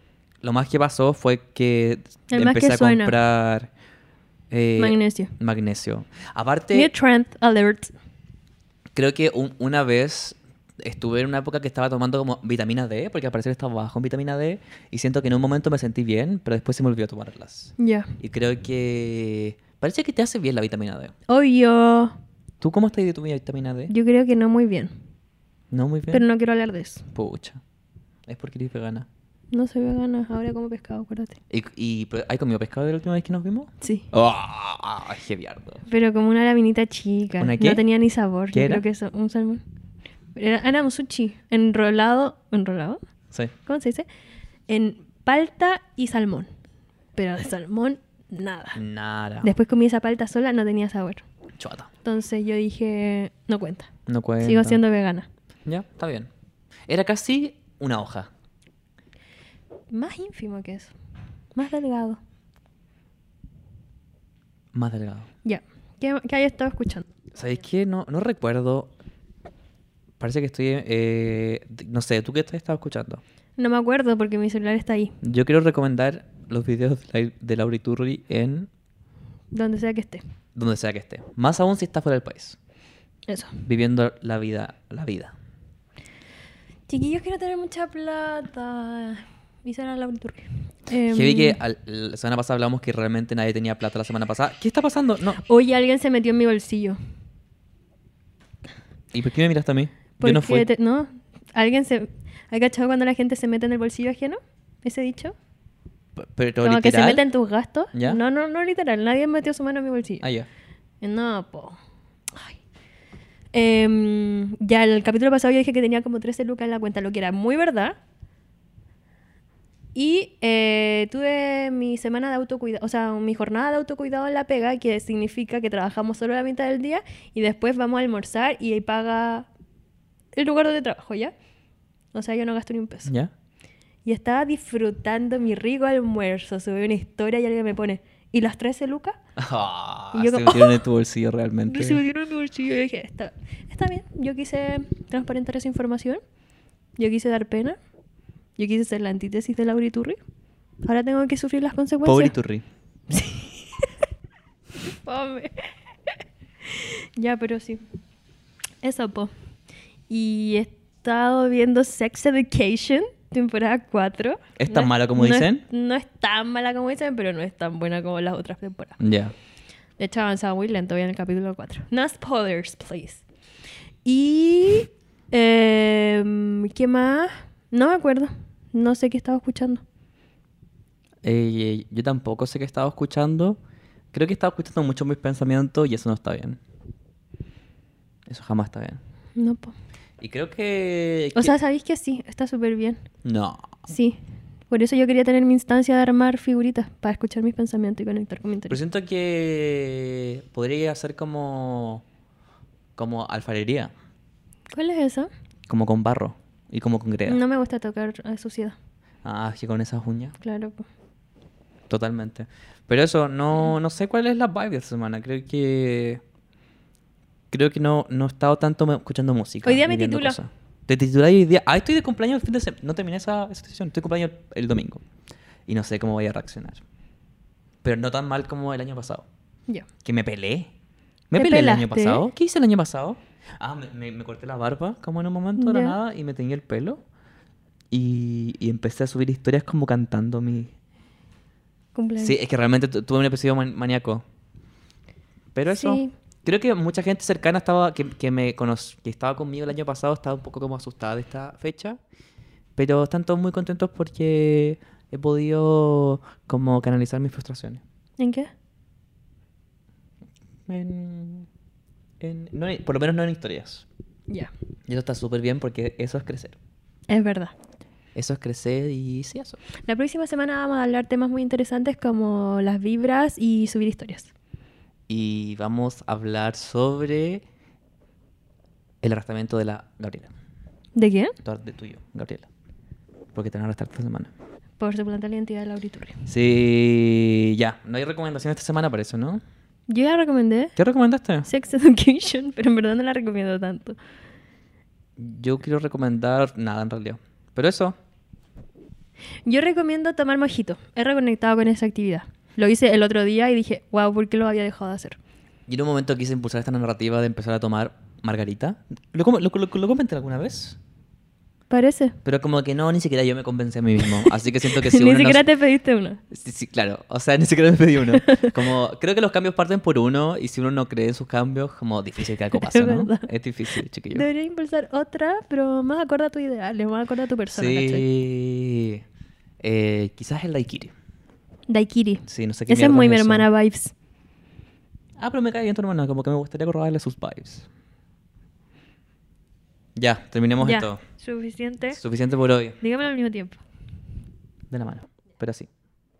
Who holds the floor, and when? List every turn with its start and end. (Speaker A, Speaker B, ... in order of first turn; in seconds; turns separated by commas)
Speaker A: 0.4-3.7, Speaker B: 2.3-3.1, Speaker A: 4.5-6.9, Speaker B: 4.8-5.3, Speaker B: 6.7-7.9, Speaker A: 8.9-21.1, Speaker B: 17.8-18.1, Speaker B: 21.3-22.1, Speaker A: 22.6-23.9, Speaker B: 23.9-24.9, Speaker A: 25.7-26.2, Speaker B: 26.1-27.1, Speaker A: 27.1-27.6, Speaker A: 28.3-29.1, Speaker B: 29.5-31.4, Speaker A: 31.5-35.8, Speaker B: 33.8-34.1, Speaker B: 35.9-39.6, Speaker A: 37.4-37.8, Speaker A: 38.5-38.8, Speaker B: 40.4-43.0, Speaker B: 43.6-44.0, Speaker B: 44.7-46.5, Speaker B: 47.1-48.8, Speaker A: 48.7-49.5, Speaker B: 49.4-51.2, Speaker A: 51.6-51.9, Speaker B: 52.0-53.9, Speaker A: 54.1-54.8, Speaker B: 54.4-55.3, Speaker A: 55.6-56.3, Speaker A: 56.9-58.3, Speaker B: 59.9-60.9, Speaker B: 61.5-62.2, Speaker A: 64.7-65.3, Speaker B: 65.4-67.0, Speaker A: 67.3-68.9, Speaker A: 70.2-73.2, Speaker B: 73.6-75.1, Speaker A: 75.2-78.7, Speaker B: 79.5-80.2, Speaker A: 80.5-82.6, Speaker B: 83.3-83.6, Speaker A: 83.6-85.3, Speaker B: 86.9-91.6, Speaker A: 91.1-95.4, Speaker B: 95.4-97.0, Speaker A: 99.1-100.7, Speaker B: 100.2-105.3, Speaker A: 106.2-107.2, Speaker B: 106.6-110.3, Speaker A: 107.9-108.2, Speaker A: 110.2-110.5, Speaker B: 111.0-111.8, Speaker B: 112.3-112.6, Speaker B: 113.5-118.0, Speaker B: 119.9-129.5, Speaker B: 130.3-131.3, Speaker B: 132.1-133.1, Speaker A: 133.1-133.3, Speaker B: 134.0-139.2, Speaker A: 139.3-142.0, Speaker B: 140.1-140.8, Speaker B: 141.7-146.2, Speaker B: 147.0-147.8, Speaker B: 148.6-150.2, Speaker B: 150.8-152.3, Speaker A: 152.0-152.6, Speaker B: 153.1-153.9, Speaker B: 154.8-155.7, Speaker B: 156.7-157.8, Speaker B: 158.8-159.3, Speaker B: 160.1-169.0, Speaker A: 164.6-165.6, Speaker A: 169.0-169.3, Speaker B: 170.0-173.2, Speaker B: 174.0-179.8, Speaker A: 181.2-183.6, Speaker A: 184.1-186.6, Speaker A: 188.3-189.0, Speaker B: 189.4-189.7, Speaker A: 190.2-191.5, Speaker B: 191.3-193.0, Speaker A: 193.2-193.7, Speaker B: 193.8-194.2, Speaker B: 194.7-198.8, Speaker A: 198.7-202.0, Speaker A: 202.9-203.9, Speaker B: 204.7-205.3, Speaker A: 205.7-207.4, Speaker B: 207.3-208.8, Speaker A: 209.2-210.4, Speaker B: 210.4-210.8, Speaker A: 211.9-216.2, Speaker A: 217.5-225.0, Speaker B: 219.6-220.4, Speaker A: 225.7-226.8, Speaker A: 227.8-229.2, Speaker A: 230.0-230.7, Speaker A: 231.3-237.0, Speaker B: 231.3-232.2, Speaker B: 235.6-236.0, Speaker A: 237.9-240.7, Speaker B: 241.9-242.4, Speaker A: 242.2-244.2, Speaker A: 245.5-252.0, Speaker B: 245.7-246.1, Speaker A: 252.8-257.8, Speaker B: 258.2-258.5, Speaker A: 260.7-261.5, Speaker A: 262.2-263.9, Speaker A: 264.9-266.6, Speaker B: 267.1-267.5, Speaker A: 268.1-269.6, Speaker B: 269.9-274.3, Speaker A: 275.1-277.4, Speaker A: 279.0-280.3, Speaker B: 280.9-281.4, Speaker A: 281.4-282.5, Speaker A: 283.3-284.3, Speaker B: 284.8-286.2, Speaker A: 286.3-289.4, Speaker B: 289.9-290.7, Speaker A: 290.8-291.5, Speaker B: 291.4-294.0, Speaker A: 295.2-298.0, Speaker B: 299.4-305.2, Speaker A: 305.7-310.8, Speaker B: 311.7-312.2, Speaker A: 312.2-315.4, Speaker B: 314.0-316.2, Speaker A: 316.3-324.3, Speaker B: 318.1-318.5, Speaker B: 322.5-323.3, Speaker B: 324.1-328.1, Speaker A: 327.5-329.0, Speaker A: 329.6-330.9, Speaker B: 331.7-333.9, Speaker A: 332.2-333.5, Speaker A: 335.2-337.7, Speaker A: 339.9-341.0, Speaker B: 340.6-342.0, Speaker A: 341.9-342.8, Speaker B: 342.8-343.6, Speaker A: 344.7-345.7